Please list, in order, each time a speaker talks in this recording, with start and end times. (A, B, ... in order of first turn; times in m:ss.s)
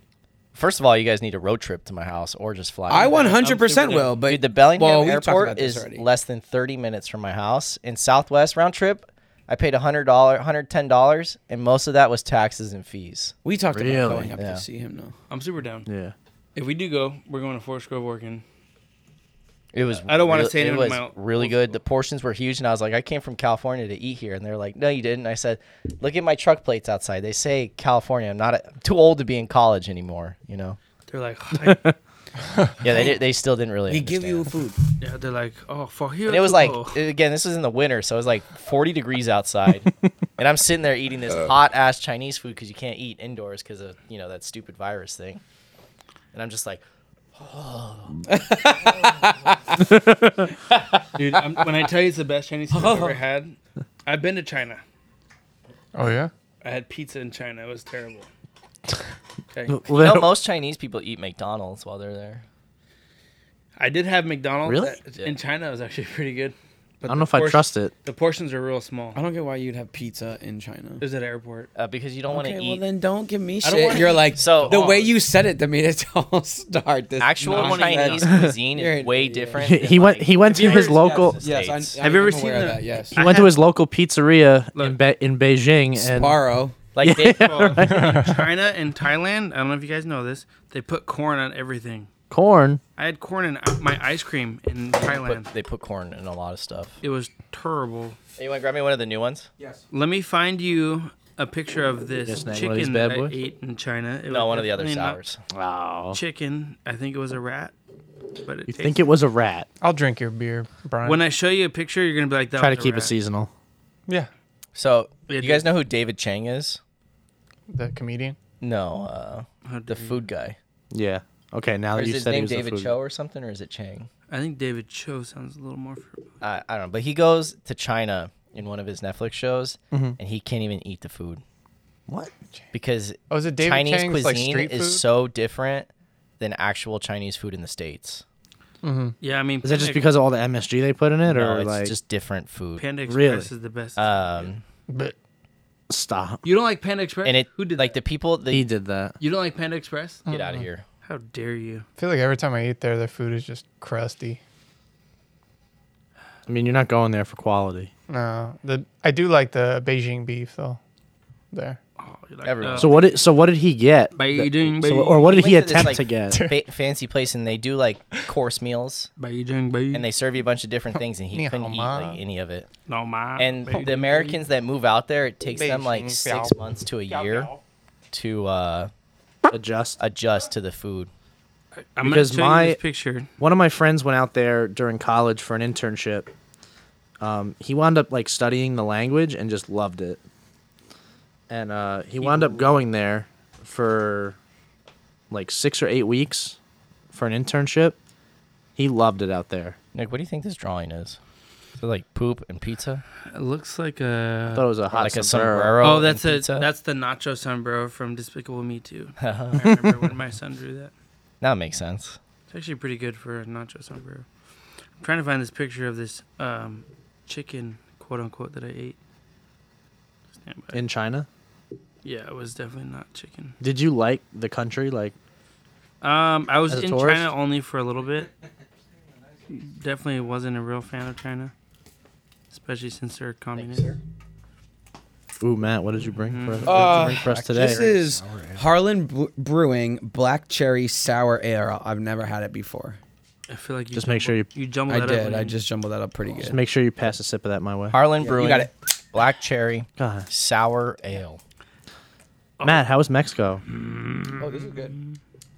0:00.5-0:03.2 A
0:02.9-0:06.0 B
0:02.9-0:04.2 C
0:04.2-0:13.3 A
0:13.4-0:15.1 B
0:13.7-0:14.3 D
0:14.4-0:14.6 A
0:15.3-0:15.9 C
0:15.8-0:16.1 D
0:16.5-0:18.4 C
0:19.7-0:30.8 A
0:20.0-0:21.8 C
0:31.1-0:31.9 C
0:31.6-0:31.9 D
0:32.5-0:32.7 E
0:32.8-0:34.5 A
0:33.9-0:34.8 B
0:35.0-0:37.0 C
0:36.3-0:45.4 A
0:46.3-0:46.8 A
0:47.3-0:48.3 A
0:48.2-0:49.9 B
0:49.8-0:50.5 D
0:50.5-0:51.7 B
0:51.2-0:54.8 C
0:52.7-0:53.2 B
0:55.9-0:56.3 E
0:56.6-0:58.3 C
0:59.7-1:00.4 D
0:59.9-1:02.4 A
1:03.8-1:09.2 C
1:04.6-1:05.0 D
1:07.1-1:07.9 D
1:09.1-1:11.0 B
1:11.0-1:11.7 C
1:11.7-1:12.8 A
1:12.3-1:19.9 B
1:13.6-1:15.1 C
1:14.3-1:15.0 A
1:17.2-1:22.0 A
1:17.5-1:18.5 C
1:19.6-1:21.4 D
1:20.4-1:23.2 B
1:22.0-1:23.5 C
1:23.1-1:26.4 D
1:26.0-1:26.7 B
1:26.9-1:27.8 A
1:27.0-1:28.3 D
1:27.2-1:32.1 C
1:27.8-1:28.4 E
1:32.3-1:32.8 D
1:33.0-1:35.5 C
1:35.0-1:37.0 A
1:37.0-1:38.2 C
1:38.4-1:39.5 A
1:39.6-1:39.8 B
1:39.9-1:45.2 C
1:42.2-1:43.3 D
1:44.3-1:45.4 A
1:45.5-1:46.2 D
1:46.1-1:47.7 C
1:48.4-1:49.0 C
1:48.7-1:49.7 D
1:49.8-1:51.2 E
1:51.0-1:53.1 C
1:52.6-1:53.5 D
1:54.7-1:56.8 A
1:55.3-1:55.7 C
1:57.7-1:58.4 E
1:58.6-2:00.6 A
1:59.6-2:00.2 C
2:00.9-2:02.9 D
2:02.0-2:04.1 A
2:04.3-2:06.2 C
2:06.4-2:11.4 A
2:09.9-2:10.2 D
2:12.7-2:15.9 A
2:13.3-2:15.0 E
2:16.4-2:18.2 A
2:18.8-2:19.1 E
2:19.2-2:20.1 C
2:19.6-2:22.0 D
2:21.2-2:22.8 A
2:22.8-2:24.5 C
2:23.1-2:23.5 D
2:24.0-2:24.6 A
2:24.9-2:25.1 E
2:25.9-2:26.4 D
2:26.4-2:28.0 C
2:27.2-2:28.6 A
2:28.5-2:29.1 D
2:29.2-2:30.3 C
2:30.3-2:30.6 E
2:30.3-2:30.8 A
2:31.0-2:31.8 C
2:32.0-2:34.4 E
2:36.5-2:37.9 D
2:38.1-2:40.8 E
2:41.5-2:41.8 E
2:42.0-2:43.1 C
2:42.4-2:43.1 A
2:42.7-2:46.4 D
2:44.1-2:45.2 C
2:45.1-2:49.1 A
2:49.2-2:50.1 C
2:49.9-2:52.7 A
2:51.3-2:52.2 E
2:52.9-2:54.4 C
2:53.4-2:57.5 A
2:55.5-2:56.5 E
2:57.1-2:57.4 C
2:58.1-2:58.9 A
2:59.5-3:00.0 D
3:00.0-3:01.1 A
3:01.8-3:03.3 C
3:02.0-3:02.8 D
3:03.4-3:06.3 D
3:07.2-3:10.2 D
3:11.5-3:14.4 D
3:12.2-3:12.7 C
3:15.3-3:16.6 D
3:17.1-3:18.0 D
3:18.8-3:19.8 D
3:19.9-3:21.2 A
3:21.8-3:23.0 A
3:23.3-3:24.7 C
3:24.5-3:25.8 D
3:24.9-3:26.7 A
3:25.8-3:30.9 C
3:29.2-3:29.7 A
3:31.4-3:32.2 A
3:32.5-3:34.2 C
3:35.0-3:39.0 C
3:40.4-3:40.8 C
3:40.7-3:41.3 D
3:42.0-3:43.6 C
3:43.6-3:45.1 D
3:46.0-3:48.3 C
3:46.7-3:47.3 D
3:49.5-3:51.5 C
3:52.5-3:53.9 C
3:53.5-3:54.0 A
3:55.4-3:57.8 D
3:56.2-3:57.1 C
3:56.6-4:03.0 B
3:57.3-3:58.6 A
4:03.5-4:05.6 C
4:03.9-4:04.5 D
4:04.9-4:06.6 B
4:06.4-4:08.0 D
4:07.9-4:11.4 A
4:08.2-4:08.7 B
4:10.0-4:10.3 D
4:12.6-4:12.9 C
4:12.6-4:13.6 D
4:13.7-4:15.1 C
4:14.4-4:15.0 B